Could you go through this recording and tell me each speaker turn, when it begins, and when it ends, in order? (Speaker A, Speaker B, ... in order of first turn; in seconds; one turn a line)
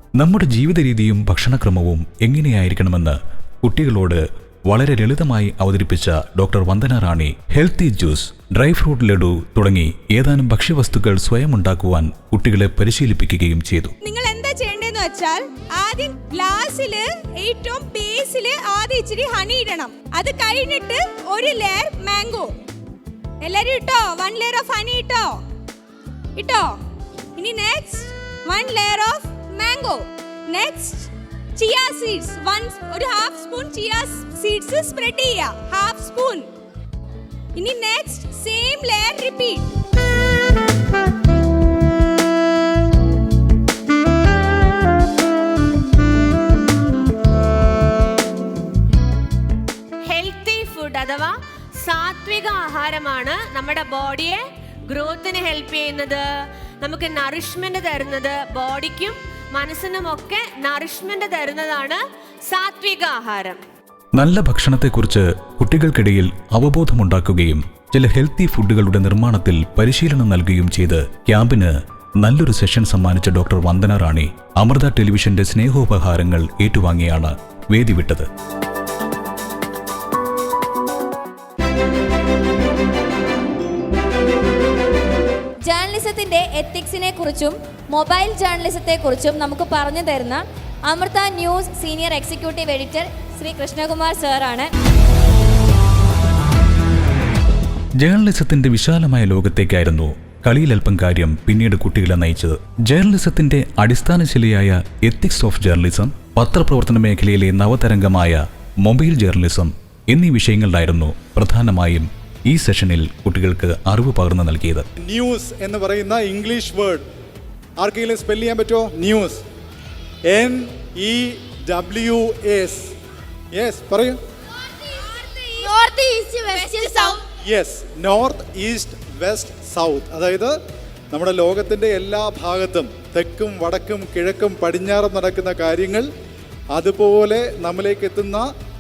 Speaker A: 0.2-13.9
Speaker B: 14.0-22.5
Speaker B: 23.4-25.4
Speaker B: 26.4-26.7
Speaker B: 27.4-36.5
Speaker B: 37.6-39.6
Speaker C: 50.0-56.2
Speaker C: 56.8-63.6
Speaker A: 64.2-78.3
Speaker D: 85.7-94.7
Speaker A: 98.0-114.8
Speaker E: 115.0-117.0
Speaker E: 117.8-119.4
Speaker E: 120.3-122.9
Speaker E: 123.5-124.2
Speaker E: 127.5-130.5
Speaker E: 131.1-136.1
Speaker E: 136.7-138.5